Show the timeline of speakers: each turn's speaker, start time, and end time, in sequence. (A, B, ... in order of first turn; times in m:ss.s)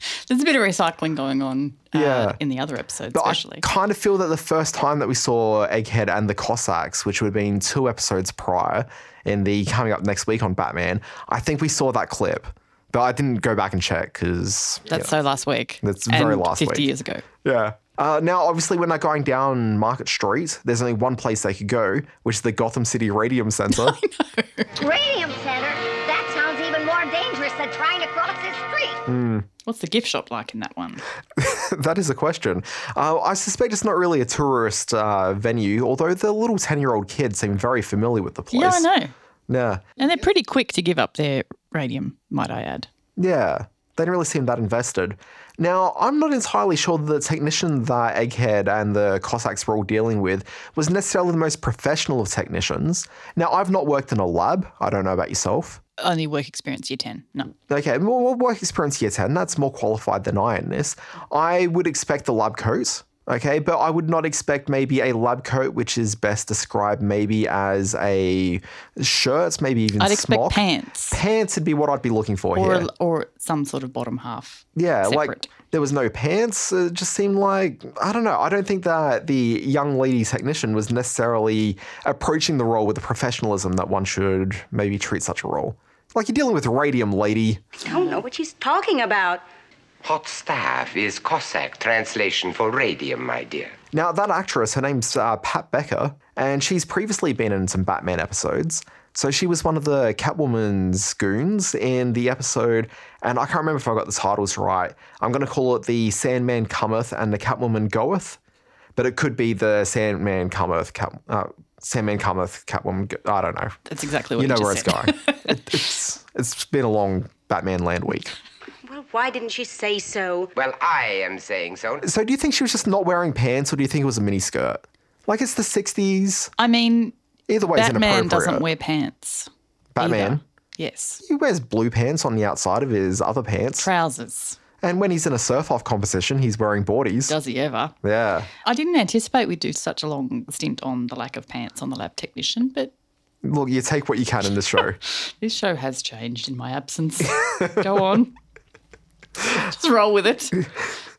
0:00.3-0:03.7 A
0:01.9-0:02.4 B
0:03.1-0:15.2 B
0:14.9-0:17.2 A
0:15.8-0:16.9 B
0:17.4-0:24.0 B
0:23.7-0:24.7 A
0:24.8-0:29.0 C
0:29.1-0:29.5 B
0:29.6-0:31.0 A
0:31.4-0:38.9 B
0:38.5-0:39.1 A
0:39.5-0:39.8 B
0:40.0-0:42.9 A
0:43.2-0:55.8 B
0:56.0-0:57.5 A
0:57.7-1:12.9 B
1:10.0-1:11.2 A
1:12.6-1:15.5 A
1:14.8-1:27.7 B
1:27.8-1:29.4 D
1:30.0-1:33.8 E
1:33.9-1:48.4 B
1:49.0-1:53.8 B
1:53.9-1:55.4 A
1:54.4-1:58.4 B
1:58.8-2:00.5 D
2:00.6-2:02.0 E
2:02.0-2:06.5 B
2:06.6-2:07.1 A
2:07.5-2:08.6 B
2:07.7-2:11.2 A
2:10.0-2:10.4 B
2:11.2-2:13.9 B
2:13.8-2:14.6 A
2:14.8-2:17.3 B
2:17.3-2:17.9 A
2:18.0-2:18.5 B
2:18.6-2:22.9 A
2:23.4-2:25.0 B
2:25.1-2:28.4 A
2:29.5-2:30.6 A